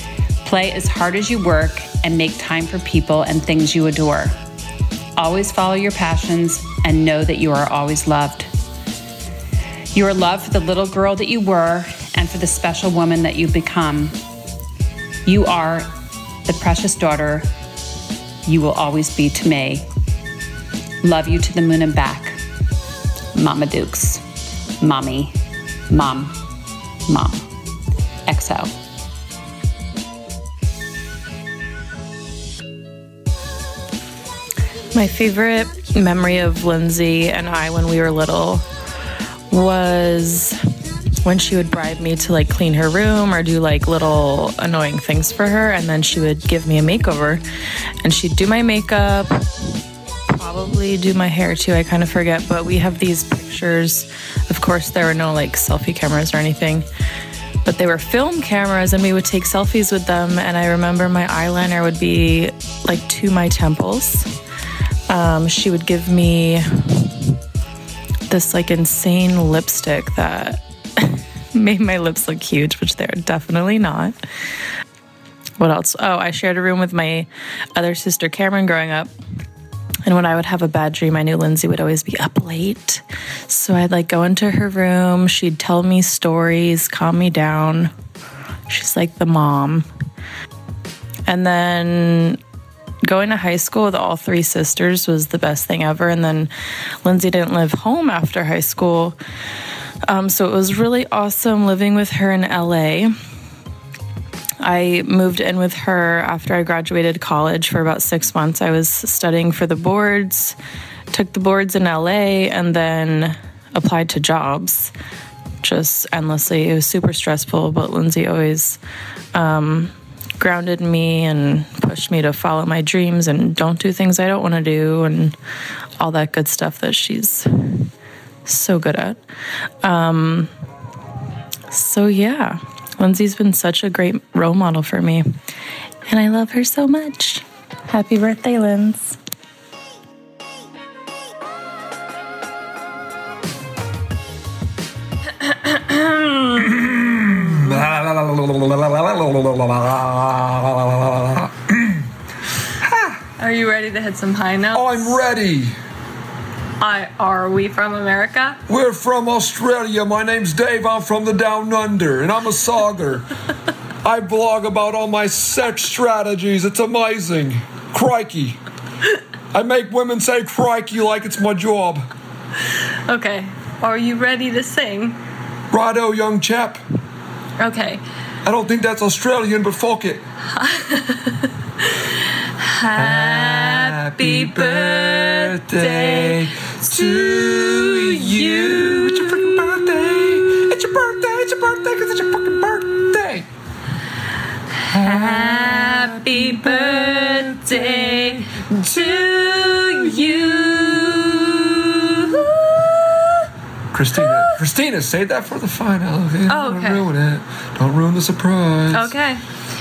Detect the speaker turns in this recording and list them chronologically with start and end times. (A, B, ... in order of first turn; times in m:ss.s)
0:00.4-0:04.4 A
0:05.2-0:08.5 A
0:09.9-0:14.2 A
0:15.2-0:15.9 A
0:16.4-0:17.5 A
0:18.4-0:19.8 A
0:21.0-0:22.4 A
0:23.3-0:24.2 A
0:24.8-0:25.4 A
0:25.9-0:26.3 A
0:27.0-0:27.4 A
0:28.2-0:28.7 A
0:34.9-0:38.6 B
0:39.5-0:40.6 B
0:41.2-0:47.4 B
0:48.0-0:49.5 B
0:50.3-0:56.8 B
0:57.6-1:04.3 B
1:05.1-1:07.1 B
1:08.3-1:14.2 B
1:15.6-1:19.1 B
1:20.0-1:27.9 B
1:28.7-1:29.9 B
1:31.3-1:32.4 B
1:33.0-1:36.5 B
1:37.0-1:39.2 B
1:40.1-1:43.1 B
1:44.6-1:50.6 B
1:51.1-1:54.9 B
1:55.6-1:58.8 B
1:59.3-2:05.4 B
2:06.0-2:07.5 B
2:08.4-2:09.2 B
2:09.8-2:10.5 B
2:11.7-2:15.2 B
2:16.1-2:19.2 B
2:25.4-2:26.8 C
2:27.1-2:32.0 D
2:32.8-2:33.2 D
2:33.4-2:35.3 C
2:34.7-2:35.7 D
2:36.8-2:38.6 C
2:38.7-2:43.3 D
2:44.0-2:48.6 D
2:49.5-2:52.0 D
2:53.1-2:55.2 C
2:55.7-2:56.8 D
2:57.6-2:58.0 C
2:58.4-3:00.2 D
3:00.5-3:01.4 C
3:02.6-3:10.1 C
3:03.0-3:13.4 D
3:14.9-3:23.3 C
3:15.0-3:18.3 D
3:23.9-3:29.1 D
3:24.1-3:24.6 C
3:26.5-3:27.1 C
3:28.9-3:29.4 C